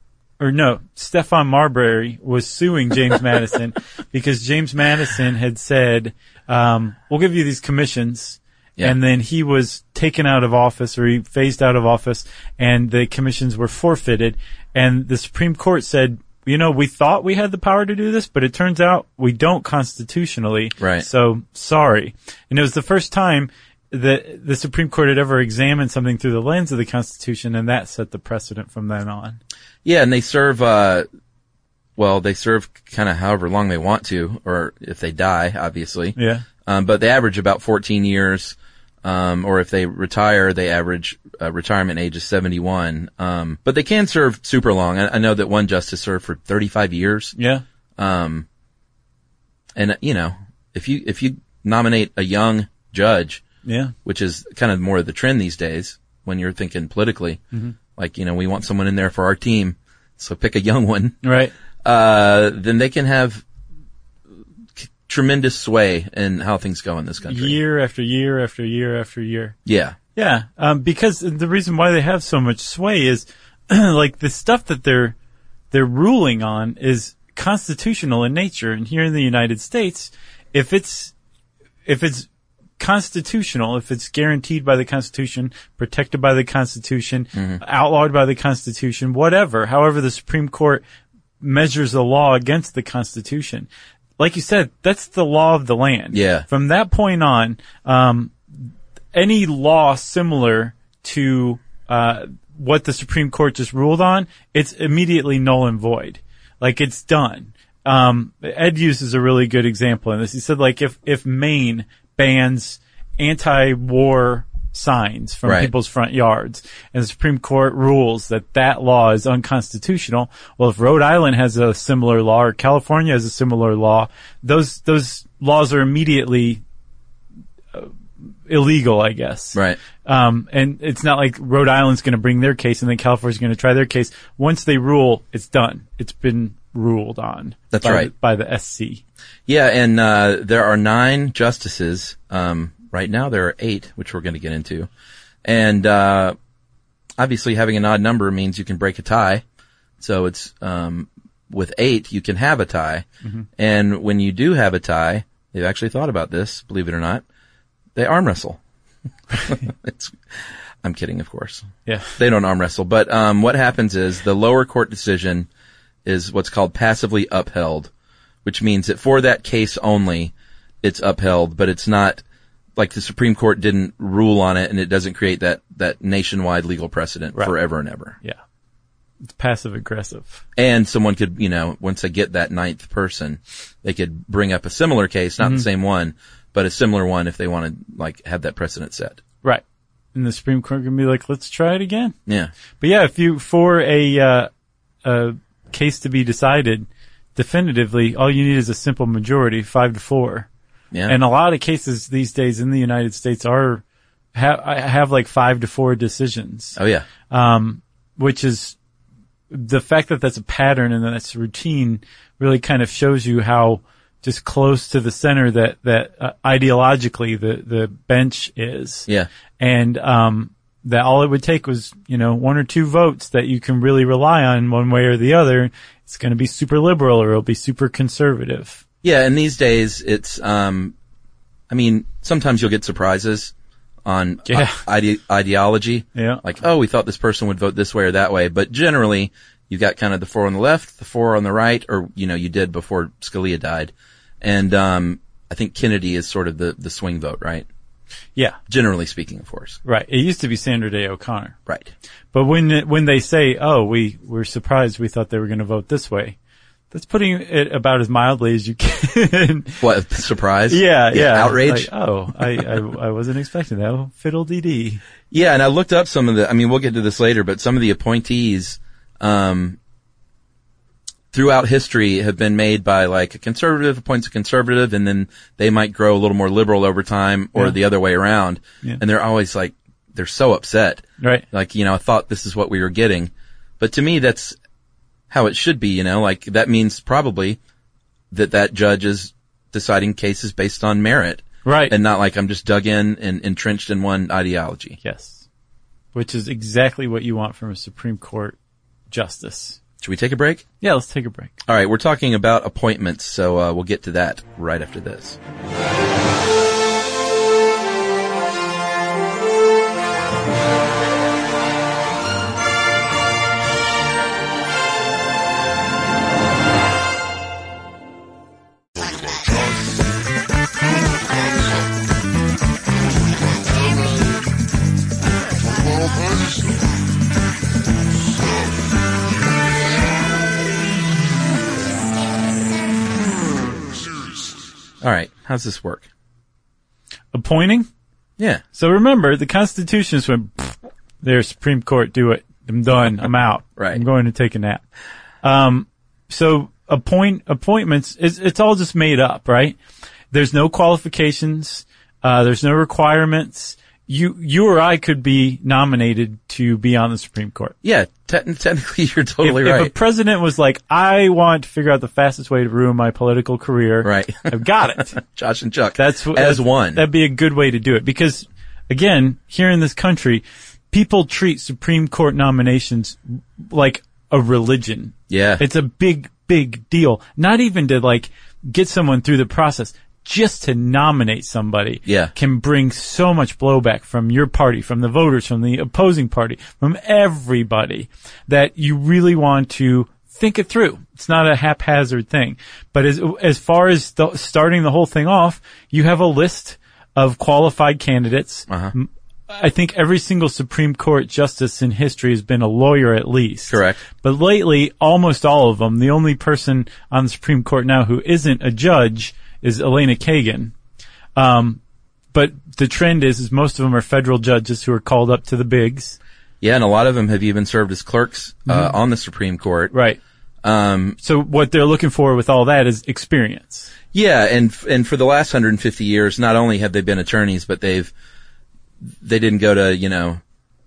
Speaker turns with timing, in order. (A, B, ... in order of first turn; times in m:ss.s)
0:00.4-0:29.4 A
0:20.8-0:21.0 B
0:29.8-0:31.0 B
0:32.0-0:47.3 B
0:36.2-0:36.4 A
0:47.4-0:47.6 A
0:48.0-0:48.4 B
0:49.7-0:53.4 B
0:53.6-0:53.9 A
0:54.0-0:57.4 B
0:58.0-1:01.2 B
1:01.2-1:01.5 A
1:01.8-1:03.4 B
1:04.8-1:07.6 B
1:07.2-1:09.6 A
1:09.6-1:10.0 B
1:10.2-1:15.1 A
1:15.7-1:21.1 A
1:21.8-1:22.3 A
1:22.8-1:30.8 A
1:27.3-1:27.6 B
1:31.4-1:38.4 A
1:36.1-1:36.4 B
1:39.1-2:06.6 A
1:55.4-1:55.7 B
2:08.5-2:19.0 A
2:17.7-2:18.1 B
2:19.5-2:24.9 B
2:25.4-2:26.3 B
2:27.2-2:29.4 B
2:30.0-2:33.0 B
2:33.6-2:37.2 B
2:37.9-2:38.6 B
2:39.4-2:40.2 B
2:40.8-2:45.5 B
2:41.8-2:42.1 A
2:46.0-2:47.9 B
2:48.4-2:52.2 B
2:52.8-2:58.2 B
2:59.2-3:00.4 A
3:00.6-3:09.2 B
3:10.1-3:12.1 A
3:12.2-3:12.5 B
3:12.8-3:14.5 A
3:15.0-3:20.5 A
3:21.1-3:23.8 A
3:24.3-3:26.8 A
3:26.8-3:27.0 B
3:27.3-3:28.8 A
3:29.5-3:39.1 A
3:39.6-3:48.8 A
3:49.0-3:50.9 B
3:51.7-3:53.5 B
3:54.0-4:07.7 B
3:54.5-3:54.8 A
3:56.1-3:56.4 A
4:08.7-4:09.8 B
4:09.8-4:11.6 A
4:11.6-4:11.9 B
4:12.3-4:16.4 A
4:16.9-4:19.8 A
4:19.8-4:21.9 B
4:20.7-4:25.0 A
4:25.3-4:29.8 B
4:31.3-4:44.6 B
4:41.2-4:41.4 A
4:45.3-4:47.6 B
4:48.3-4:55.0 B
4:51.6-4:51.9 A
4:55.0-4:55.4 A
4:56.1-4:58.6 A
4:59.1-4:59.8 A
5:00.0-5:00.6 B
5:00.8-5:01.6 A
5:01.6-5:05.4 B
5:35.0-5:36.1 B
5:37.3-5:37.9 A
5:38.4-5:38.6 B
5:38.7-5:44.8 A
5:43.8-5:44.0 B
5:45.4-5:49.8 A
5:50.3-5:57.7 A
5:57.8-5:59.9 B
5:59.4-6:05.2 A
6:04.0-6:04.5 B
6:05.1-6:07.0 B
6:06.0-6:50.7 A
6:15.3-6:15.6 B
6:22.0-6:22.3 B
6:43.7-6:44.0 B
6:51.4-6:51.8 A
6:52.3-6:56.2 A
6:56.6-6:59.9 B
6:58.7-6:58.9 A
6:59.9-7:00.2 A
7:00.6-7:01.2 B
7:01.2-7:03.9 A
7:04.1-7:08.1 B
7:09.2-7:10.4 B